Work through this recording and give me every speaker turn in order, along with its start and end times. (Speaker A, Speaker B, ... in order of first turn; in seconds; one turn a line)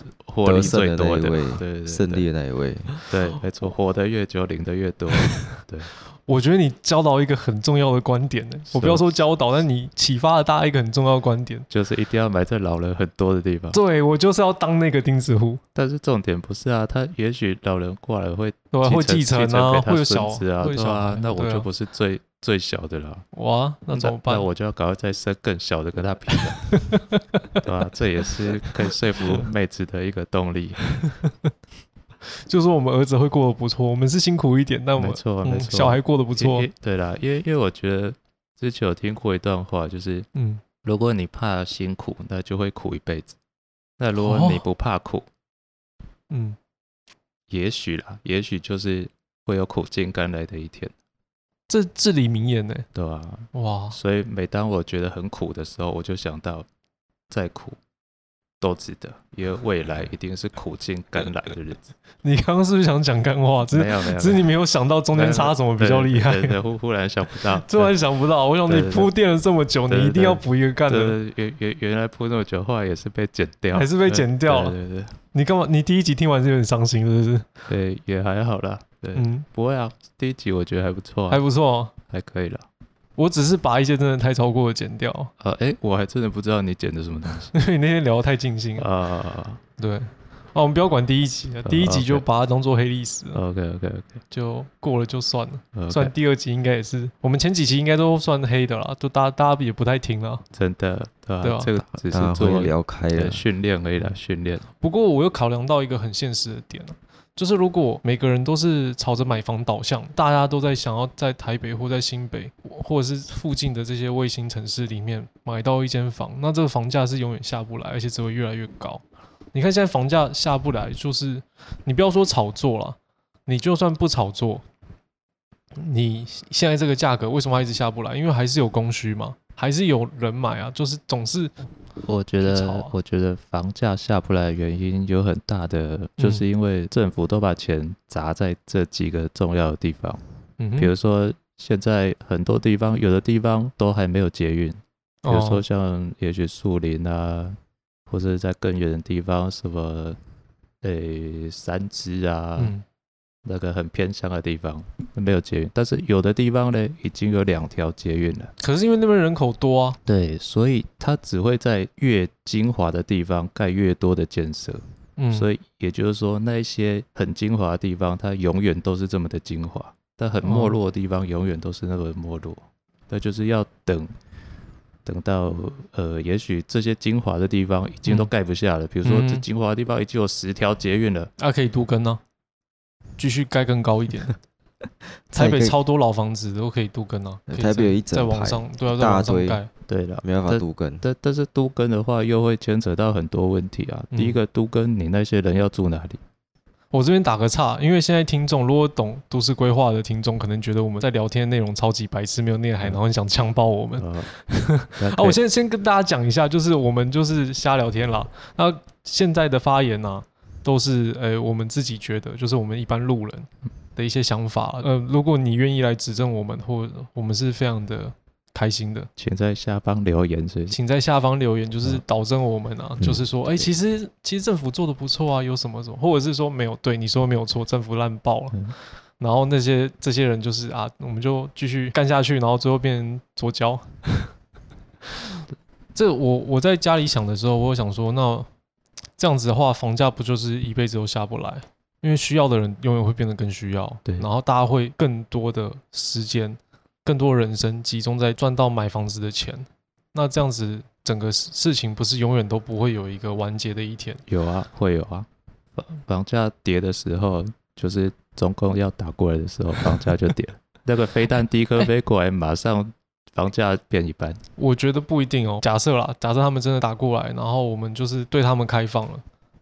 Speaker A: 0.2-2.2
Speaker B: 0.4-2.9
Speaker A: 3.1-5.9
Speaker C: 5.2-5.6
Speaker C: 6.2-11.7
Speaker A: 8.7-9.2
Speaker A: 11.7-13.8
Speaker C: 13.7-15.6
Speaker A: 15.7-23.2
Speaker C: 18.7-21.7
Speaker C: 23.3-24.5
Speaker A: 23.9-26.8
Speaker C: 26.6-27.6
Speaker A: 27.6-31.0
Speaker C: 31.0-31.5
Speaker C: 32.5-36.7
Speaker A: 35.0-40.3
Speaker C: 40.3-40.6
Speaker A: 40.8-43.4
Speaker A: 44.0-45.2
Speaker C: 44.2-44.6
Speaker C: 46.3-46.6
Speaker A: 47.5-50.9
Speaker C: 51.7-52.9
Speaker A: 52.9-56.7
Speaker C: 53.5-54.0
Speaker A: 57.3-57.8
Speaker A: 58.6-61.9
Speaker C: 62.2-66.6
Speaker A: 63.7-64.5
Speaker A: 65.1-67.9
Speaker C: 67.6-71.2
Speaker A: 68.7-69.1
Speaker A: 69.9-75.2
Speaker C: 73.7-74.8
Speaker C: 75.3-77.5
Speaker A: 77.7-81.4
Speaker C: 79.1-79.5
Speaker C: 81.3-81.9
Speaker A: 82.1-82.7
Speaker C: 83.2-85.3
Speaker A: 85.4-87.5
Speaker C: 87.5-88.9
Speaker A: 88.8-89.6
Speaker C: 89.8-93.4
Speaker A: 91.6-92.2
Speaker A: 93.3-94.2
Speaker C: 94.3-100.4
Speaker A: 95.7-96.1
Speaker A: 100.5-104.7
Speaker C: 101.4-101.7
Speaker B: 102.1-103.4
Speaker C: 104.8-119.0
Speaker C: 119.5-124.6
Speaker C: 125.8-131.5
Speaker A: 132.0-140.2
Speaker C: 132.4-132.9
Speaker C: 136.2-136.4
Speaker C: 140.6-140.9
Speaker A: 140.8-147.6
Speaker C: 145.2-145.6
Speaker A: 148.1-150.2
Speaker A: 150.8-152.7
Speaker C: 152.6-152.8
Speaker A: 153.4-158.5
Speaker C: 158.6-160.0
Speaker A: 160.1-174.1
Speaker C: 165.2-165.5
Speaker C: 170.4-170.8
Speaker A: 175.0-181.3
Speaker C: 179.0-179.4
Speaker C: 181.4-182.2
Speaker C: 183.2-184.3
Speaker B: 185.3-185.8
Speaker C: 185.3-189.7
Speaker B: 187.5-189.6
Speaker A: 189.9-196.2
Speaker B: 190.2-191.0
Speaker C: 194.1-194.4
Speaker C: 196.9-219.1
Speaker A: 204.0-204.3
Speaker A: 205.0-205.4
Speaker A: 219.2-220.8
Speaker C: 220.7-228.6
Speaker C: 229.2-234.3
Speaker C: 235.9-238.5
Speaker C: 239.2-254.2
Speaker A: 254.3-264.4
Speaker C: 264.6-269.2